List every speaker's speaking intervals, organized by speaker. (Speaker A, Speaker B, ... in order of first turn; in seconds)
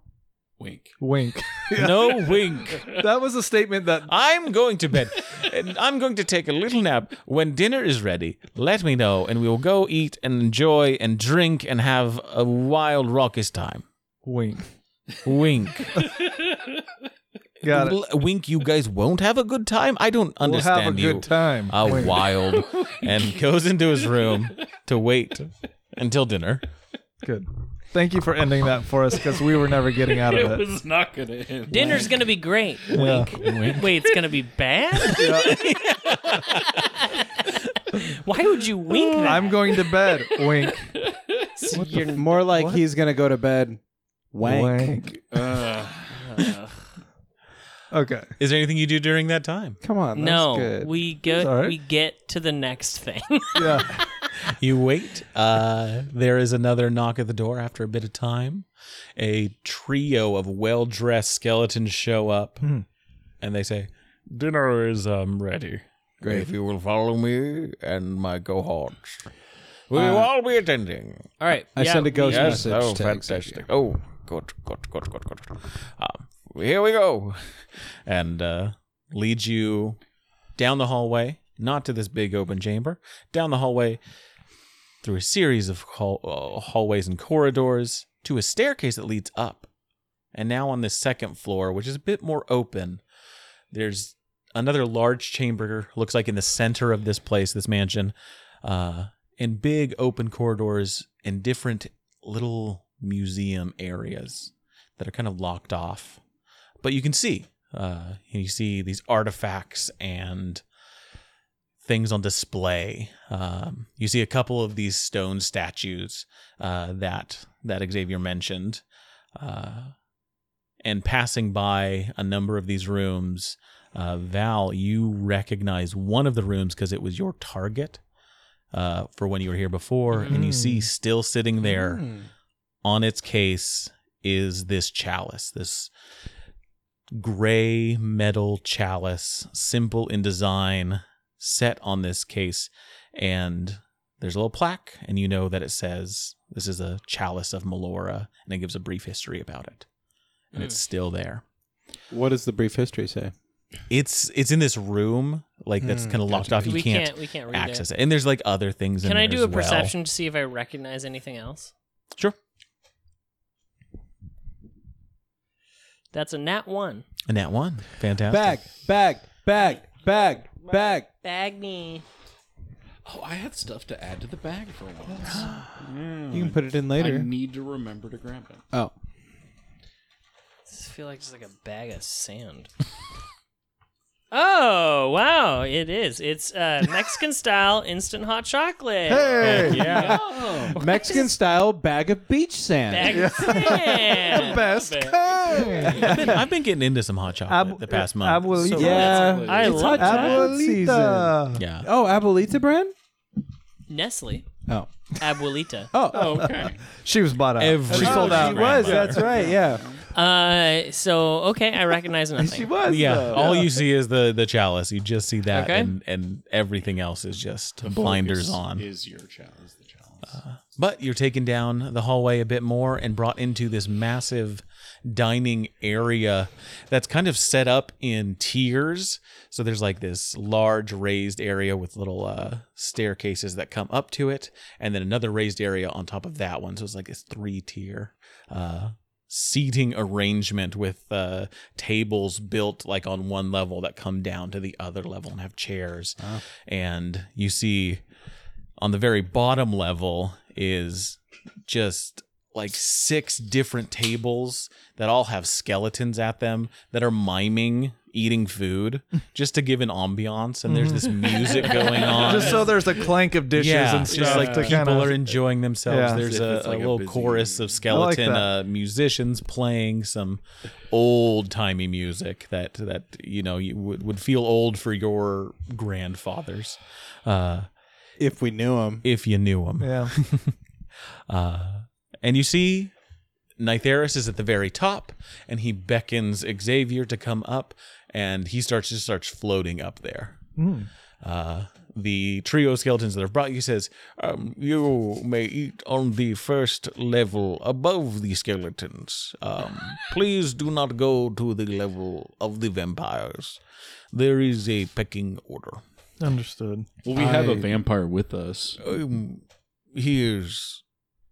Speaker A: 0.6-1.0, 22.6-23.4, 24.1-24.4, 30.1-32.1, 33.1-34.1, 41.0-41.3, 45.3-46.2, 173.1-178.7, 189.4-190.8, 194.7-196.1, 198.8-200.5, 206.1-206.8, 208.0-210.0, 217.8-220.4, 261.8-262.7, 264.1-265.2, 266.1-267.9, 307.0-308.8
Speaker B: 1.0-4.1, 14.2-14.7, 17.6-18.0, 20.4-22.3, 27.2-30.7, 31.8-32.1, 32.9-33.4, 35.1-35.6, 39.2-40.9, 41.7-42.8, 44.4-45.1, 47.9-48.3, 51.3-51.8, 53.6-54.0, 130.3-130.9, 189.1-190.1, 193.1-196.4, 197.5-201.6, 206.4-209.5, 260.7-265.2, 265.9-266.2, 267.9-268.5, 279.8-280.1, 290.6-290.9, 306.2-306.9
Speaker C: 1.8-2.9, 4.1-13.8, 15.2-16.1, 17.7-26.7, 35.5-36.6, 48.4-49.8, 54.5-58.7, 59.2-62.7, 63.4-69.3, 69.9-71.3, 72.2-80.0, 80.6-84.0, 85.0-89.7, 90.3-93.0, 93.7-106.2, 106.8-110.6, 111.8-118.8, 119.4-119.9, 120.8-128.0, 128.7-132.1, 132.8-135.9, 137.1-149.9, 150.5-151.4, 153.9-159.9, 167.3-168.6, 196.0-199.1, 201.6-201.9, 207.6-209.3, 212.8-218.8, 220.3-248.0, 248.8-262.8, 263.5-277.7, 279.0-280.5, 281.3-282.9, 283.6-290.4, 291.2-303.6, 304.1-305.8, 308.8-310.8
Speaker D: 31.7-35.6, 37.9-39.6, 41.6-42.5, 46.3-46.6, 50.1-54.1, 71.4-72.7, 130.1-130.4, 156.6-157.8, 159.0-161.7, 166.1-167.1, 170.7-172.1, 180.7-182.7, 184.3-191.3, 192.9-195.6, 198.8-200.5, 203.9-204.5, 205.2-205.9, 210.1-212.8, 215.5-215.9
Speaker E: 42.0-43.8, 44.3-45.2, 49.8-50.9, 66.2-66.5, 69.9-70.3, 71.7-73.7, 131.6-132.3, 152.1-153.3, 155.8-156.8, 168.3-171.1, 176.3-177.3, 189.8-193.8, 195.6-195.9, 198.8-202.9, 205.9-206.5, 207.9-209.9, 212.4-213.7, 278.2-279.1, 307.2-307.7